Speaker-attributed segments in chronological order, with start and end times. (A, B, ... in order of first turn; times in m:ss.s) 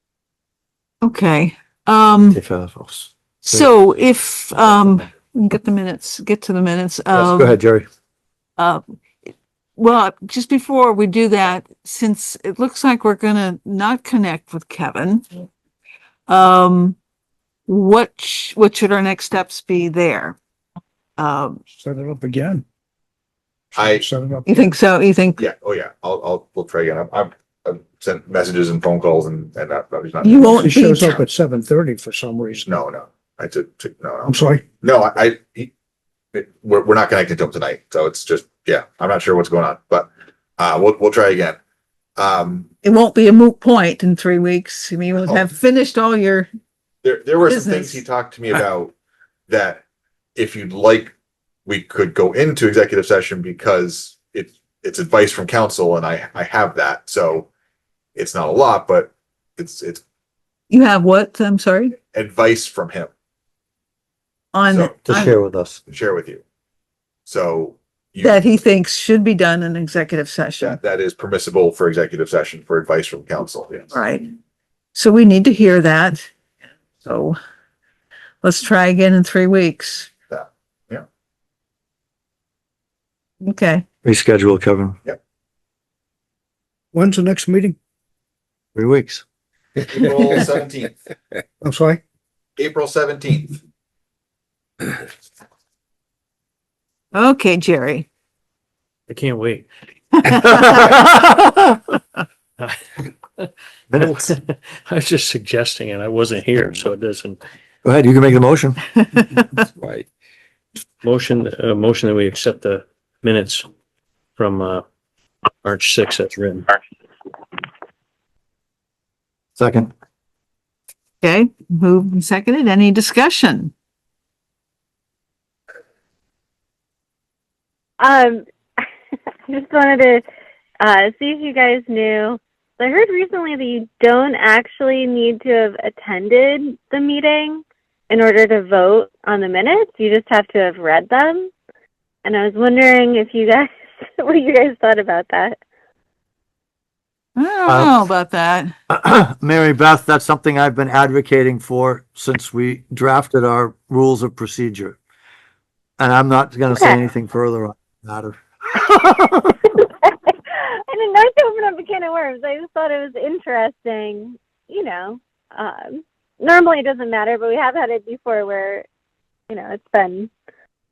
0:01.0-0:02.4 A
0:02.3-0:03.7 B
0:03.4-0:07.6 A
0:07.1-0:07.9 B
0:08.6-0:15.3 A
0:16.3-0:17.0 A
0:17.7-0:20.4 A
0:21.2-0:21.6 A
0:21.7-0:22.6 C
0:23.7-0:24.0 D
0:23.7-0:24.6 C
0:24.5-0:25.4 A
0:25.4-0:30.6 D
0:30.2-0:31.2 A
0:30.5-0:32.6 C
0:32.6-0:35.7 D
0:34.2-0:34.6 C
0:36.3-0:41.6 D
0:42.2-0:42.7 D
0:42.8-0:46.5 A
0:47.0-0:48.9 D
0:47.4-0:48.0 A
0:49.5-0:49.8 D
0:50.4-0:51.1 D
0:51.6-0:57.5 D
0:58.2-1:00.0 D
1:00.7-1:01.9 A
1:02.1-1:03.1 D
1:04.5-1:05.3 A
1:04.7-1:05.0 D
1:05.0-1:05.8 B
1:05.9-1:06.4 D
1:07.2-1:08.4 D
1:08.2-1:10.8 A
1:10.6-1:13.9 D
1:13.9-1:14.3 A
1:14.9-1:16.3 A
1:17.0-1:17.4 A
1:18.4-1:20.1 A
1:20.3-1:21.0 D
1:23.4-1:23.8 A
1:24.0-1:25.0 B
1:26.9-1:27.8 C
1:28.7-1:29.2 B
1:29.9-1:31.0 D
1:31.6-1:32.0 C
1:32.6-1:33.6 D
1:37.1-1:38.0 A
1:39.1-1:39.7 E
1:40.2-1:40.9 A
1:40.4-1:41.5 B
1:43.4-1:47.4 E
1:47.8-1:48.9 B
1:51.0-1:53.7 E
1:54.4-1:54.8 E
1:55.6-1:56.7 E
1:59.6-1:59.9 B
2:01.2-2:03.7 A
2:08.0-2:08.9 F
2:09.5-2:10.2 F
2:10.8-2:21.5 F
2:22.2-2:25.6 F
2:27.4-2:28.7 A
2:27.7-2:28.1 B
2:28.9-2:35.0 B
2:36.0-2:39.7 B
2:36.7-2:37.0 F
2:39.9-2:48.8 F
2:49.5-2:50.3 F